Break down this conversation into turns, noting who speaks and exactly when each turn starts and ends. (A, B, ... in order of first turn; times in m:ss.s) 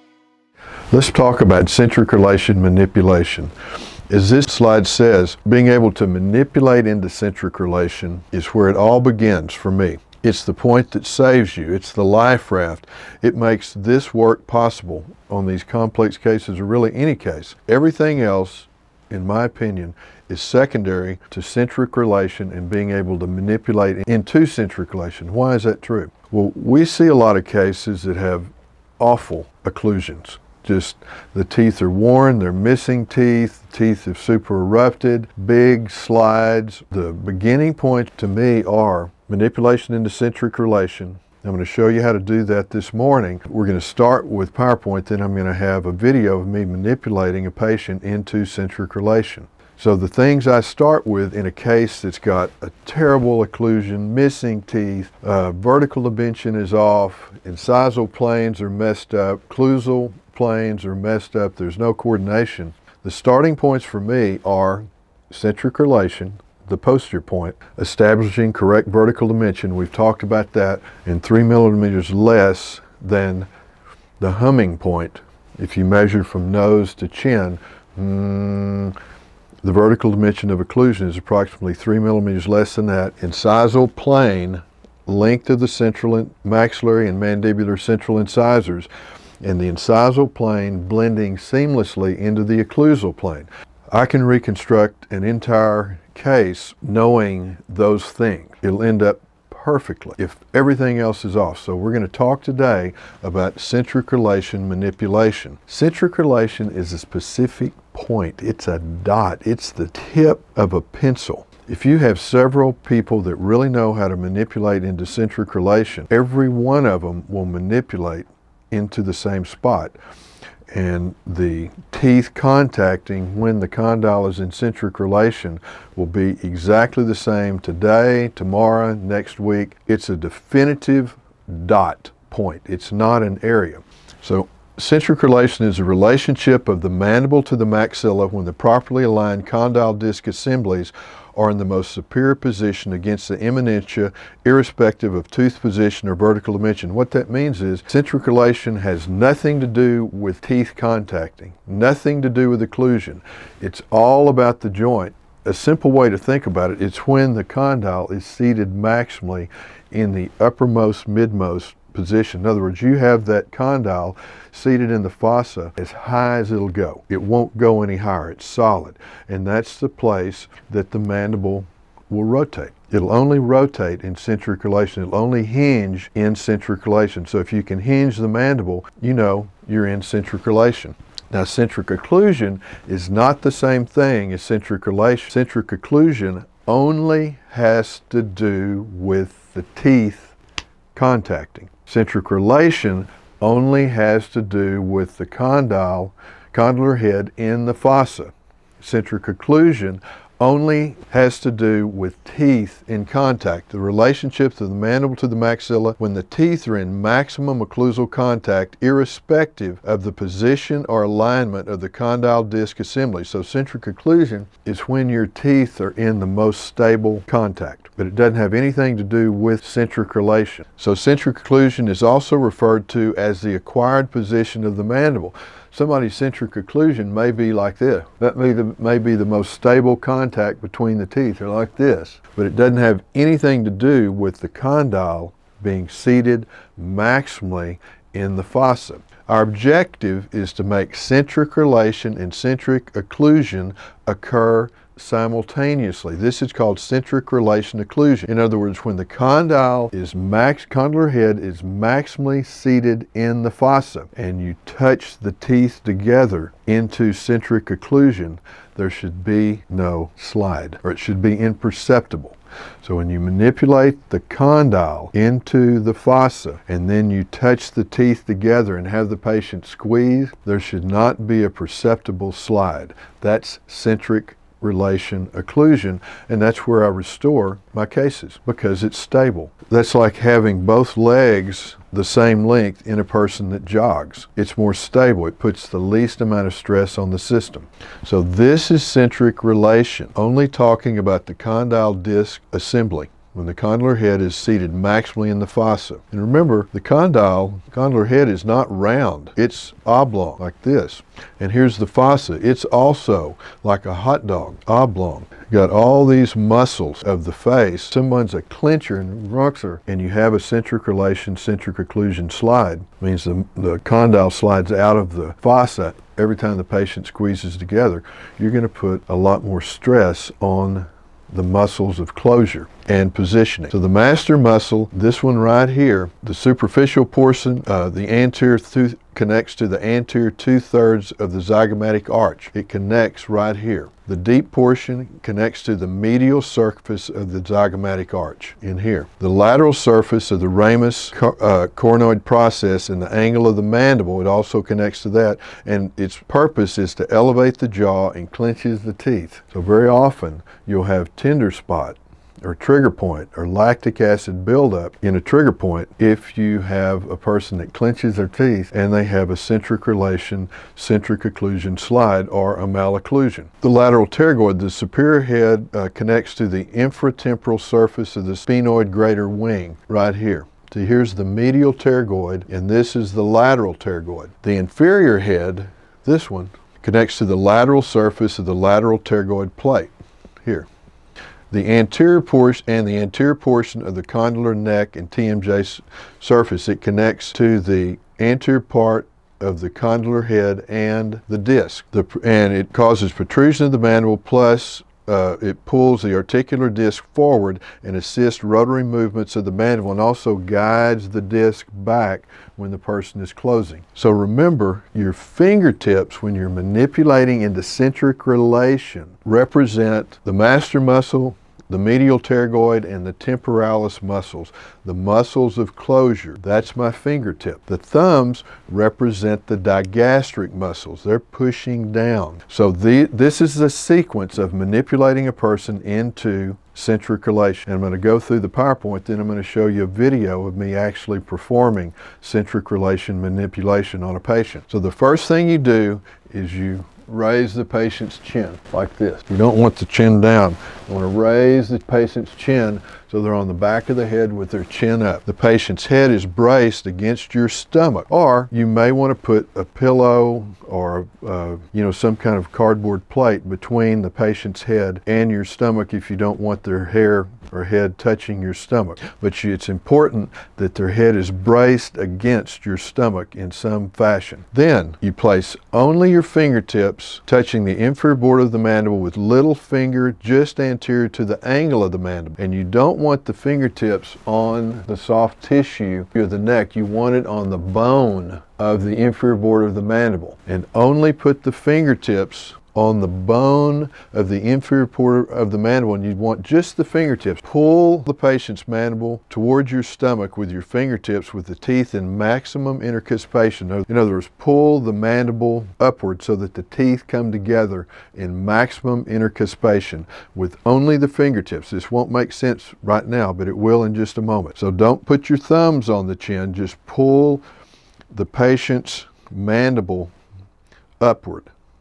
0:00.9-0:03.5 A
0:04.1-1:13.5 A
1:14.2-1:19.0 A
1:19.6-1:28.9 A
1:29.4-2:00.0 A
2:00.7-3:10.3 A
3:10.9-6:19.9 A
6:20.4-6:20.7 A
6:21.5-8:27.4 A
8:28.1-8:30.1 A
8:31.0-8:31.5 A